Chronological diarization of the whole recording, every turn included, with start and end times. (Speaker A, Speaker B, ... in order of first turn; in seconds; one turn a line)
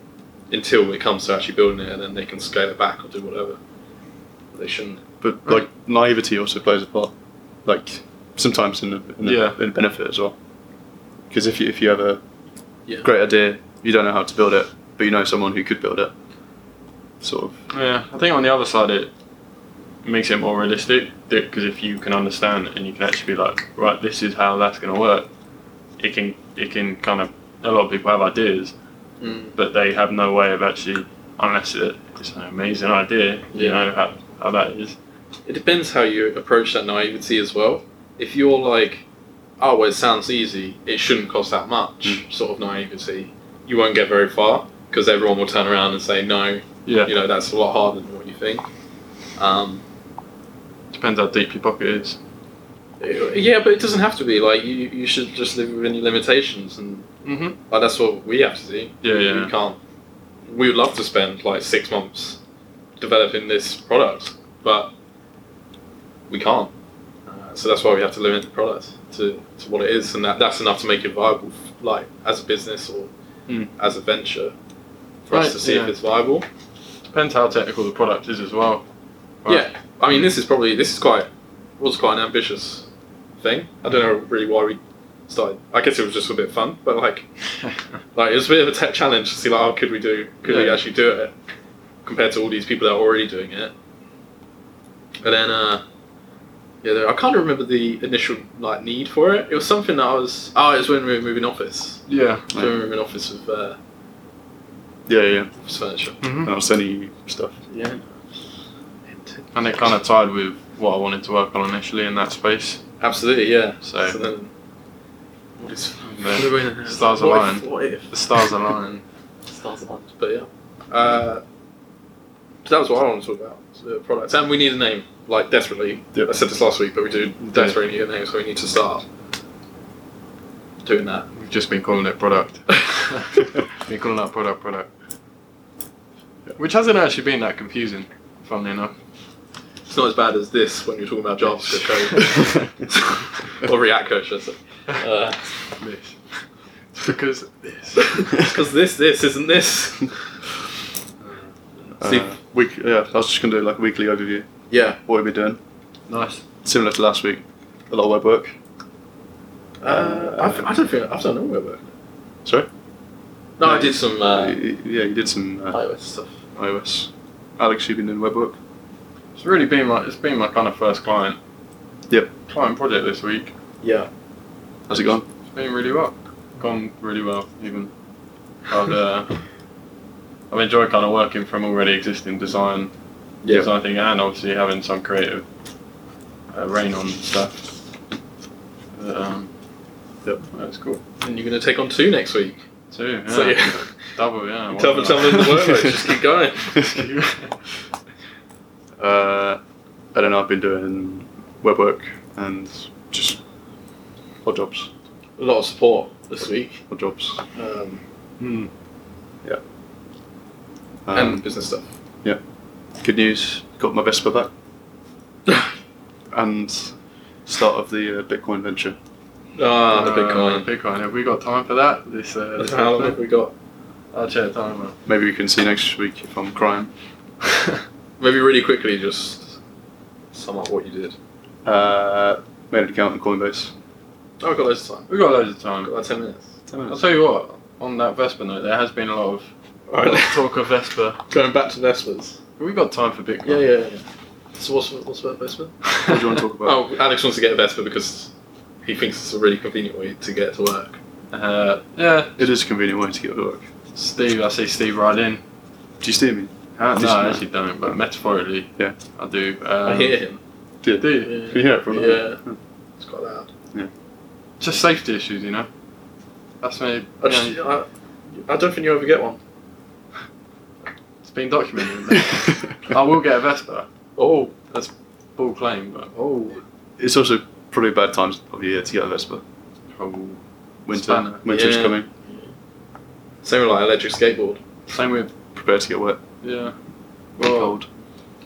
Speaker A: 0.5-3.6
Speaker A: 4.5-5.0
Speaker B: 5.2-7.1
Speaker B: 7.7-10.3
Speaker C: 9.2-9.6
Speaker B: 11.3-12.2
Speaker B: 13.0-16.1
Speaker B: 17.2-17.6
Speaker C: 17.7-19.1
Speaker C: 20.1-25.3
Speaker C: 26.0-28.8
Speaker A: 29.2-29.6
Speaker C: 29.6-35.0
Speaker A: 33.5-33.8
Speaker A: 35.5-39.0
Speaker A: 39.6-48.7
Speaker C: 46.9-47.1
Speaker A: 49.4-49.8
Speaker C: 50.9-52.2
Speaker A: 53.0-57.1
Speaker C: 57.2-57.6
Speaker A: 57.7-59.8
Speaker C: 59.0-59.5
Speaker A: 60.5-62.4
Speaker A: 63.0-64.9
Speaker A: 66.3-66.7
Speaker A: 67.3-73.1
Speaker A: 73.8-74.5
Speaker A: 75.3-76.5
Speaker C: 75.3-76.0
Speaker C: 77.1-78.8
Speaker A: 79.5-82.9
Speaker A: 83.4-87.3
Speaker A: 88.2-91.3
Speaker C: 90.5-90.8
Speaker A: 92.0-93.7
Speaker A: 95.2-95.8
Speaker A: 96.8-103.8
Speaker C: 102.1-102.5
Speaker B: 105.1-105.5
Speaker A: 105.6-106.2
Speaker C: 106.2-106.5
Speaker B: 106.4-107.6
Speaker A: 107.7-108.0
Speaker A: 109.1-109.8
Speaker C: 109.5-112.8
Speaker A: 113.0-114.5
Speaker C: 113.8-114.2
Speaker A: 115.6-118.5
Speaker C: 116.0-119.0
Speaker A: 119.5-121.4
Speaker A: 122.7-129.1
Speaker A: 130.8-131.3
Speaker C: 131.3-134.9
Speaker C: 136.6-138.9
Speaker A: 139.9-145.8
Speaker C: 141.6-142.6
Speaker C: 145.8-148.5
Speaker A: 148.0-150.5
Speaker A: 151.8-152.3
Speaker B: 152.0-154.5
Speaker A: 154.7-155.0
Speaker B: 155.0-155.6
Speaker C: 156.1-156.4
Speaker B: 156.6-158.6
Speaker A: 159.8-161.9
Speaker B: 159.8-160.7
Speaker A: 163.6-164.6
Speaker B: 163.6-165.8
Speaker A: 165.7-166.3
Speaker B: 166.6-168.6
Speaker C: 169.4-171.4
Speaker C: 172.5-173.5
Speaker A: 173.8-174.1
Speaker B: 174.9-175.2
Speaker C: 175.5-177.9
Speaker C: 178.7-179.4
Speaker C: 180.5-182.9
Speaker C: 183.5-185.4
Speaker C: 186.5-187.7
Speaker C: 188.9-189.5
Speaker C: 190.5-191.0
Speaker A: 191.2-192.6
Speaker C: 192.9-195.6
Speaker A: 193.3-194.1
Speaker A: 194.7-197.0
Speaker C: 196.8-197.5
Speaker B: 199.0-199.6
Speaker B: 200.1-203.4
Speaker B: 204.4-204.9
Speaker A: 205.4-206.8
Speaker B: 206.9-207.4
Speaker A: 207.6-208.0
Speaker C: 208.4-208.7
Speaker B: 211.1-211.4
Speaker A: 211.1-211.9
Speaker B: 213.0-214.5
Speaker B: 216.3-219.0
Speaker A: 219.6-220.7
Speaker C: 219.9-223.2
Speaker A: 222.6-223.5
Speaker C: 224.1-225.0
Speaker B: 225.1-226.9
Speaker A: 228.2-229.6
Speaker A: 230.3-231.2
Speaker B: 231.7-233.7
Speaker A: 234.4-235.1
Speaker C: 235.1-235.9
Speaker A: 235.8-236.5
Speaker B: 236.7-237.0
Speaker C: 236.9-241.2
Speaker A: 239.9-240.4
Speaker A: 241.3-242.4
Speaker C: 242.6-243.7
Speaker A: 243.4-244.0
Speaker A: 244.6-245.8
Speaker C: 245.9-246.2
Speaker B: 246.1-246.8
Speaker A: 246.6-248.3
Speaker A: 248.8-251.0
Speaker C: 251.3-252.4
Speaker B: 252.4-253.7
Speaker C: 253.9-255.4
Speaker B: 256.0-257.4
Speaker C: 256.8-260.2
Speaker A: 259.9-260.4
Speaker B: 260.8-262.6
Speaker C: 260.9-261.4
Speaker A: 261.2-262.4
Speaker A: 263.0-263.5
Speaker C: 264.6-265.7
Speaker C: 266.6-267.6
Speaker A: 267.2-267.9
Speaker A: 268.4-269.4
Speaker C: 271.2-273.9
Speaker A: 274.2-274.6
Speaker C: 274.7-276.1
Speaker A: 276.1-276.6
Speaker B: 277.0-279.4
Speaker C: 280.0-281.4
Speaker B: 280.9-282.1
Speaker A: 281.5-282.4
Speaker A: 283.4-284.6
Speaker C: 284.9-285.3
Speaker B: 285.6-286.2
Speaker C: 286.4-286.8
Speaker C: 287.4-287.8
Speaker B: 287.4-287.9